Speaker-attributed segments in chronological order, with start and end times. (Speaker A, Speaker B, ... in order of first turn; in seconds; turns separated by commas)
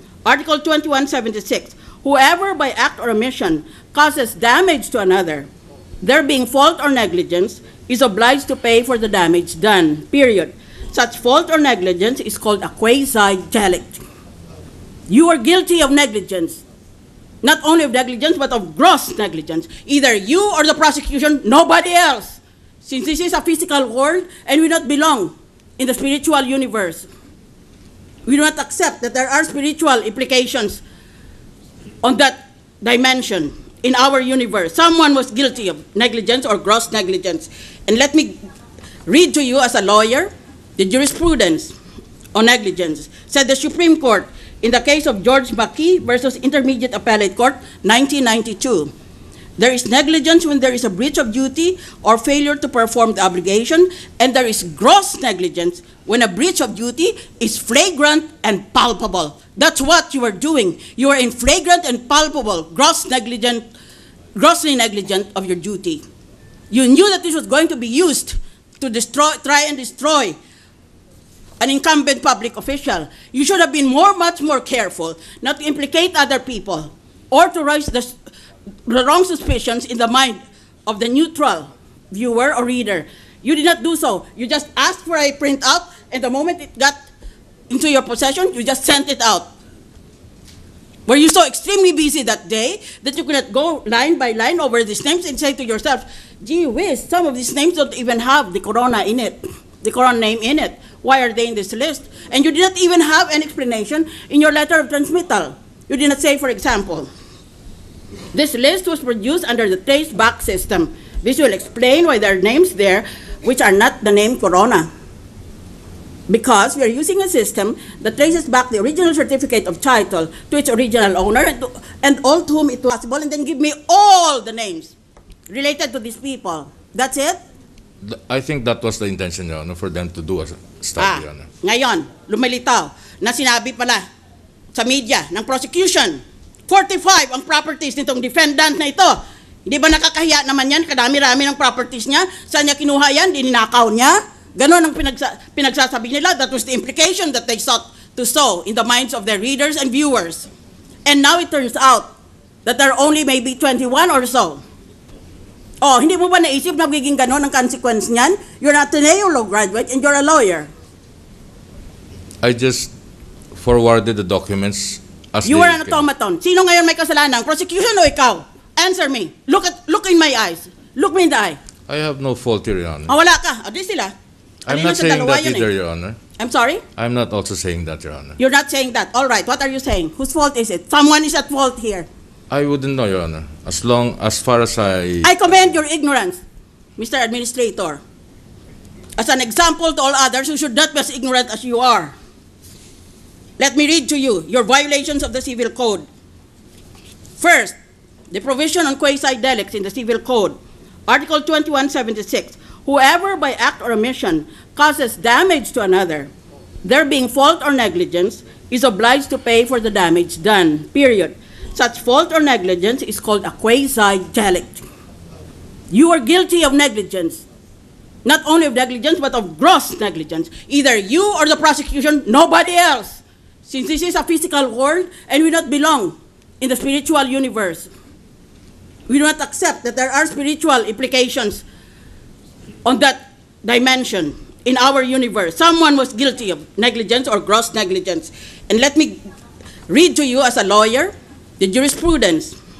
Speaker A: 0.2-5.5, Speaker A: 6.0-14.0, Speaker A: 15.1-16.6, Speaker A: 17.4-27.1, Speaker A: 28.2-30.8, Speaker A: 32.0-38.4, Speaker A: 39.1-41.7, Speaker A: 42.3-48.9, Speaker A: 49.6-63.6, Speaker A: 64.3-66.0, Speaker A: 66.7-70.4, Speaker A: 71.6-78.1, Speaker A: 78.9-87.0, Speaker A: 87.7-89.5, Speaker A: 91.1-107.1, Speaker A: 108.3-114.9, Speaker A: 116.3-124.9, Speaker A: 125.5-127.4, Speaker B: 128.0-131.4, Speaker A: 131.0-134.1, Speaker A: 134.7-150.5, Speaker A: 151.1-152.1, Speaker A: 152.6-154.6, Speaker A: 155.8-160.7, Speaker B: 162.4-162.9, Speaker B: 163.5-166.0, Speaker A: 165.4-171.6, Speaker B: 171.9-173.1, Speaker A: 173.1-174.1, Speaker B: 174.6-176.2, Speaker A: 174.7-175.7, Speaker A: 176.4-176.8, Speaker B: 176.9-178.4, Speaker A: 178.4-182.1, Speaker B: 182.5-185.3, Speaker A: 185.2-186.4, Speaker A: 187.0-188.0, Speaker A: 189.2-192.1, Speaker A: 193.6-196.0, Speaker A: 197.4-197.8, Speaker A: 198.3-200.6, Speaker A: 201.1-206.3, Speaker A: 206.8-214.8, Speaker A: 215.9-217.4, Speaker A: 218.2-227.9, Speaker A: 229.1-231.6, Speaker A: 232.8-239.2, Speaker A: 239.9-242.6